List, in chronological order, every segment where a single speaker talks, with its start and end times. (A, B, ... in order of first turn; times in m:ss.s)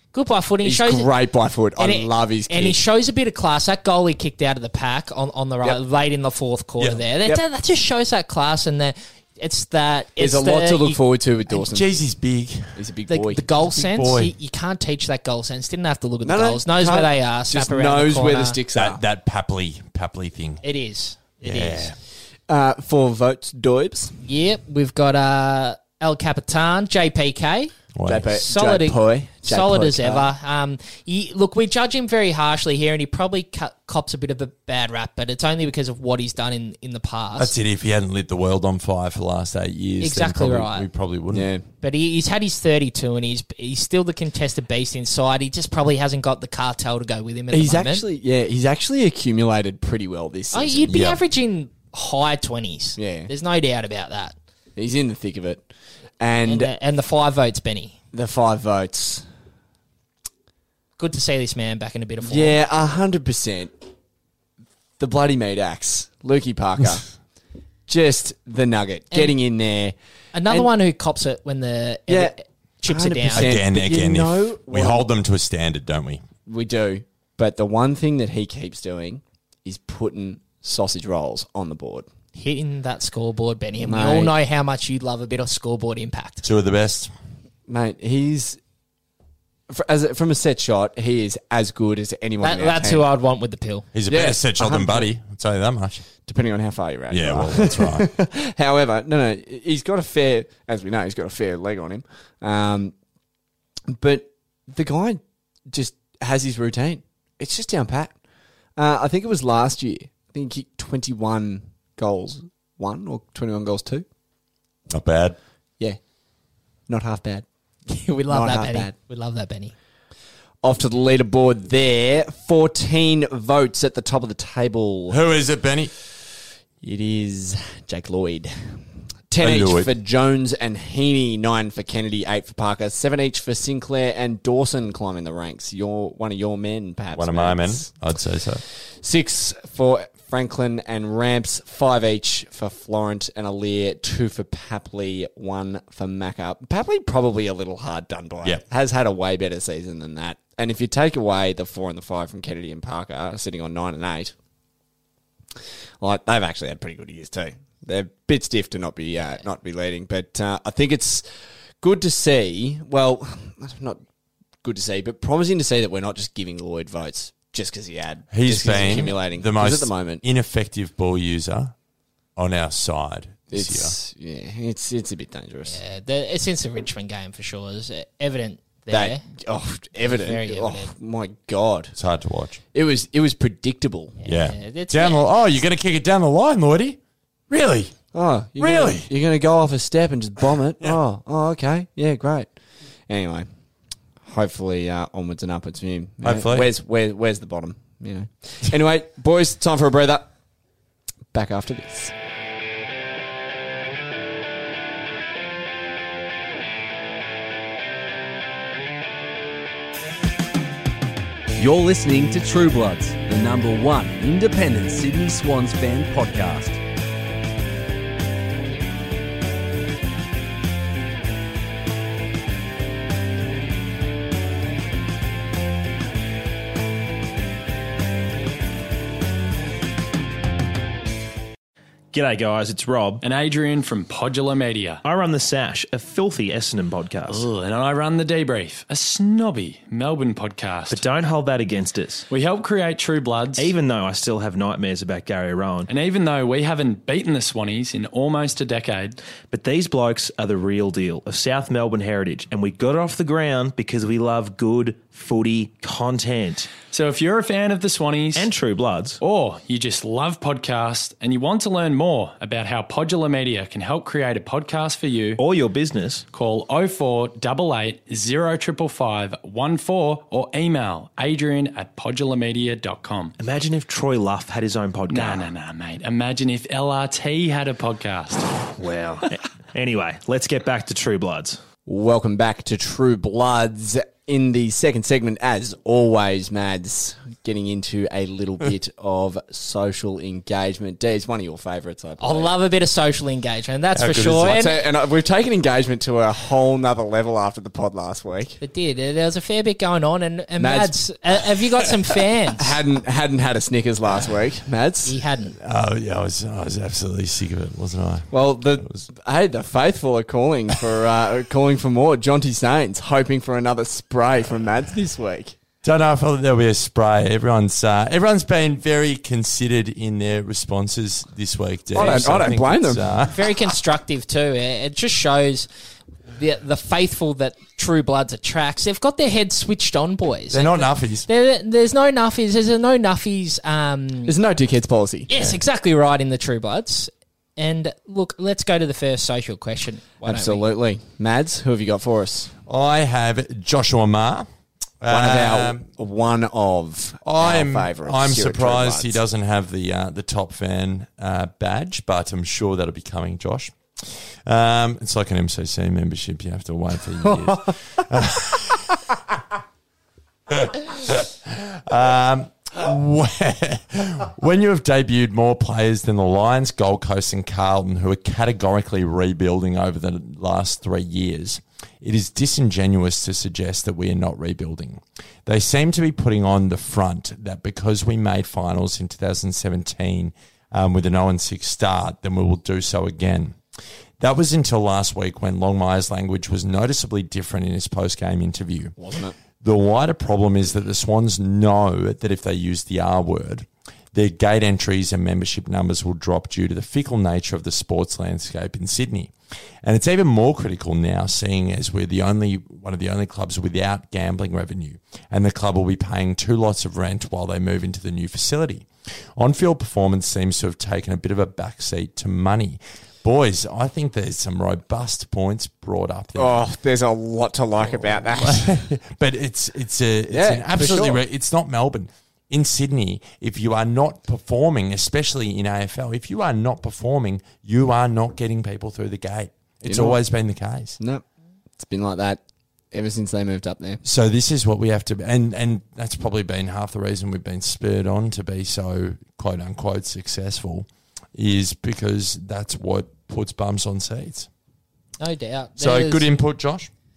0:00.1-0:01.1 A
0:00.6-0:02.8 B
0:01.8-0:11.0 A
0:10.2-0:11.9 B
0:11.5-0:12.8 C
0:12.7-0:13.4 B
0:13.1-0:18.6 A
0:13.7-0:14.3 C
0:16.2-0:19.0 B
0:18.7-0:20.6 C
0:20.6-0:21.9 A
0:21.4-0:21.9 C
0:22.5-0:24.1 B
0:24.2-0:27.7 A
0:28.0-0:28.3 C
0:28.0-0:30.3 B
0:28.3-0:37.5 A
0:37.4-0:41.5 C
0:40.0-0:40.9 A
0:41.3-0:41.6 B
0:41.8-0:48.0 A
0:47.5-0:51.0 B
0:50.5-0:54.4 A
0:50.9-0:51.2 C
0:53.0-0:53.3 B
0:54.8-0:55.7 B
0:56.2-0:56.7 B
0:56.4-0:58.0 A
0:58.1-0:59.2 B
1:01.0-1:02.6 A
1:02.2-1:03.7 B
1:05.0-1:07.0 B
1:07.9-1:09.9 B
1:10.3-1:13.5 A
1:12.1-1:12.3 B
1:12.9-1:15.0 B
1:13.3-1:16.2 C
1:16.4-1:22.1 B
1:22.3-1:26.4 A
1:23.8-1:24.3 B
1:26.4-1:27.1 C
1:27.7-1:28.6 B
1:29.7-1:33.1 B
1:32.4-1:33.8 A
1:33.9-1:36.0 C
1:34.1-1:35.1 B
1:36.2-1:42.9 B
1:37.1-1:38.1 C
1:43.9-1:48.2 B
1:48.8-1:54.0 B
1:54.9-1:55.4 C
1:56.9-1:57.4 B
1:57.9-1:59.7 A
1:58.3-1:58.9 B
2:00.6-2:05.2 B
2:05.1-2:05.9 C
2:06.8-2:08.8 B
2:09.3-2:17.9 B
2:09.4-2:09.9 C
2:17.1-2:18.6 C
2:19.0-2:34.3 B
2:36.0-2:41.2 B
2:41.8-2:44.0 B
2:44.6-2:50.2 B
2:48.3-2:51.7 C
2:52.4-2:53.9 C
2:53.5-2:55.8 B
2:55.7-2:59.2 A
2:58.9-3:01.9 B
3:00.0-3:00.9 A
3:02.0-3:02.6 C
3:02.7-3:04.2 B
3:04.2-3:05.2 A
3:04.2-3:07.0 C
3:07.5-3:07.9 C
3:08.1-3:12.5 B
3:08.6-3:09.1 C
3:13.1-3:13.5 B
3:14.2-3:20.3 B
3:16.2-3:16.7 C
3:21.3-3:22.1 B
3:31.6-3:36.8 D
3:52.1-3:53.2 E
3:53.2-3:55.0 F
3:55.0-3:57.5 E
3:57.3-4:01.1 F
4:00.9-4:02.2 E
4:02.3-4:03.7 F
4:03.6-4:05.9 E
4:05.9-4:09.2 F
4:09.5-4:16.7 E
4:16.9-4:18.5 F
4:18.3-4:19.2 E
4:19.2-4:25.4 F
4:25.4-4:26.2 E
4:26.3-4:33.3 F
4:33.4-4:35.5 E
4:35.1-4:38.5 F
4:38.8-4:41.6 E
4:41.8-4:52.5 B
4:52.2-4:54.7 A
4:53.9-4:54.5 C
4:54.4-4:58.6 B
4:58.6-5:02.8 A
5:00.6-5:00.9 B
5:02.6-5:05.1 B
5:05.0-5:05.6 A
5:05.6-5:08.3 C
5:08.3-5:15.6 B
5:08.8-5:09.0 C
5:15.8-5:23.4 C
5:21.9-5:23.1 B
5:22.0-5:22.4 A
5:23.3-5:25.7 A
5:26.3-5:34.4 A
5:30.5-5:31.3 C
5:34.2-5:35.5 B
5:35.3-5:40.6 A
5:40.2-5:42.5 B
5:42.7-5:44.5 C
5:45.0-5:45.8 C
5:45.1-5:49.2 B
5:47.2-5:58.9 C
5:57.2-5:57.5 B
6:00.5-6:23.6 C
6:24.2-6:28.9 C
6:29.0-6:29.4 B
6:29.6-6:39.3 C
6:39.8-6:48.8 C
6:49.4-6:56.6 C
6:56.3-6:58.9 B
6:58.0-7:11.0 C
7:00.3-7:01.2 B
7:09.8-7:10.2 B
7:11.0-7:11.2 B
7:11.8-7:14.0 B
7:14.0-7:24.5 C
7:25.2-7:26.2 A
7:25.8-7:26.9 C